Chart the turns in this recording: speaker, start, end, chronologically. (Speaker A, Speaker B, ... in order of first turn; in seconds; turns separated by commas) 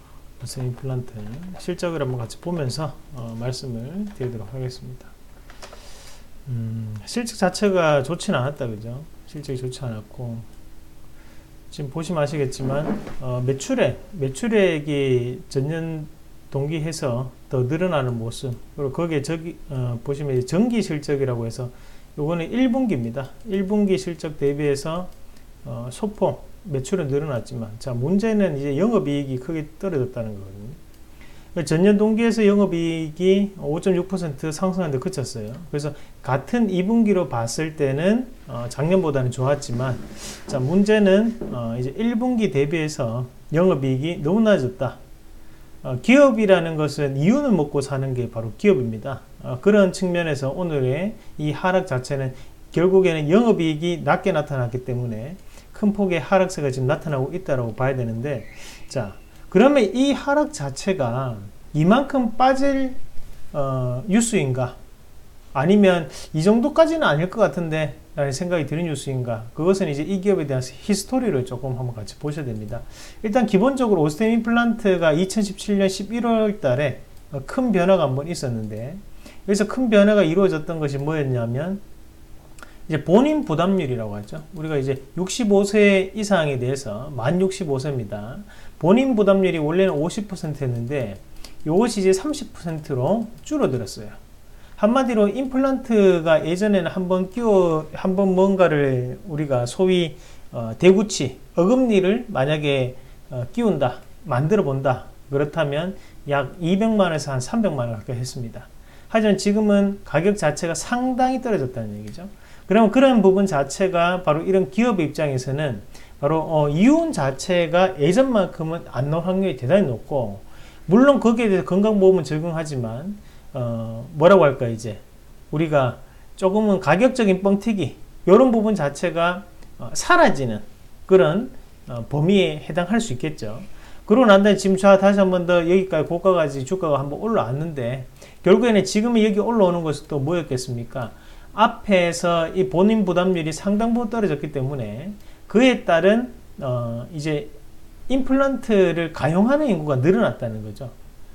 Speaker A: 0.4-5.1, Speaker A: 6.5-10.5, Speaker A: 11.7-25.1, Speaker A: 25.6-30.8, Speaker A: 31.5-45.0, Speaker A: 45.8-63.0, Speaker A: 63.5-64.8, Speaker A: 65.5-81.8, Speaker A: 82.9-94.2, Speaker A: 94.8-147.5, Speaker A: 148.1-150.9